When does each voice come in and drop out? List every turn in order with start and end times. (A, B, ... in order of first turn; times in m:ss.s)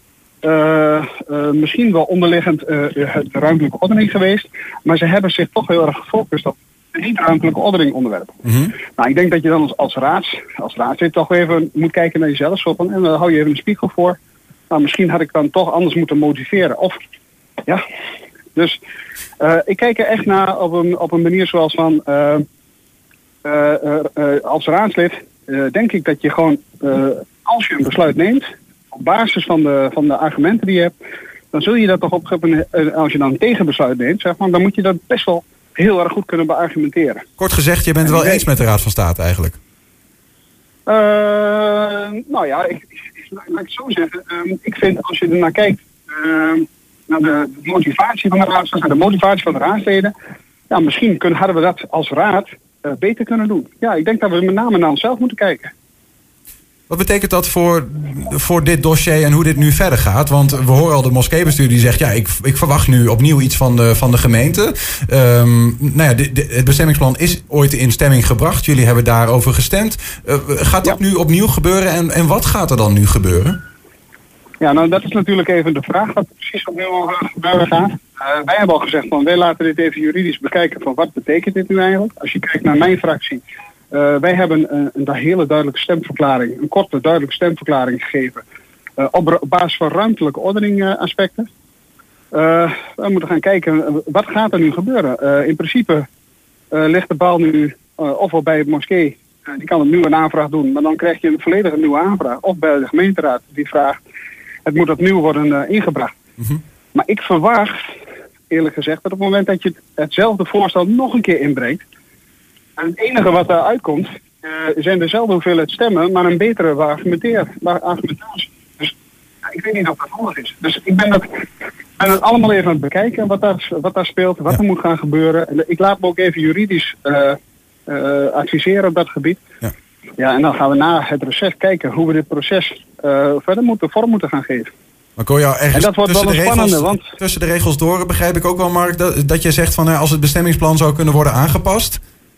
0:00.4-0:14.2 A
0:14.7-0:17.0 A
0:18.5-0:18.8 A
0:19.4-0:22.4 A
0:23.4-0:30.9 A
0:31.5-0:37.3 A
0:37.4-0:39.6 B
0:38.0-0:38.4 A
0:40.9-0:50.1 A
0:50.7-0:55.7 A
0:56.9-1:13.6 B
1:14.6-1:23.4 A
1:23.9-1:28.4 A
1:29.0-1:31.5 A
1:32.3-1:36.1 A
1:36.7-1:44.0 A
1:44.6-1:46.2 A
1:46.9-1:47.9 A
1:48.5-1:51.8 A
1:52.8-2:01.4 A
2:02.0-2:09.4 A
2:10.2-2:14.7 A
2:15.2-2:22.0 B
2:15.7-2:17.2 A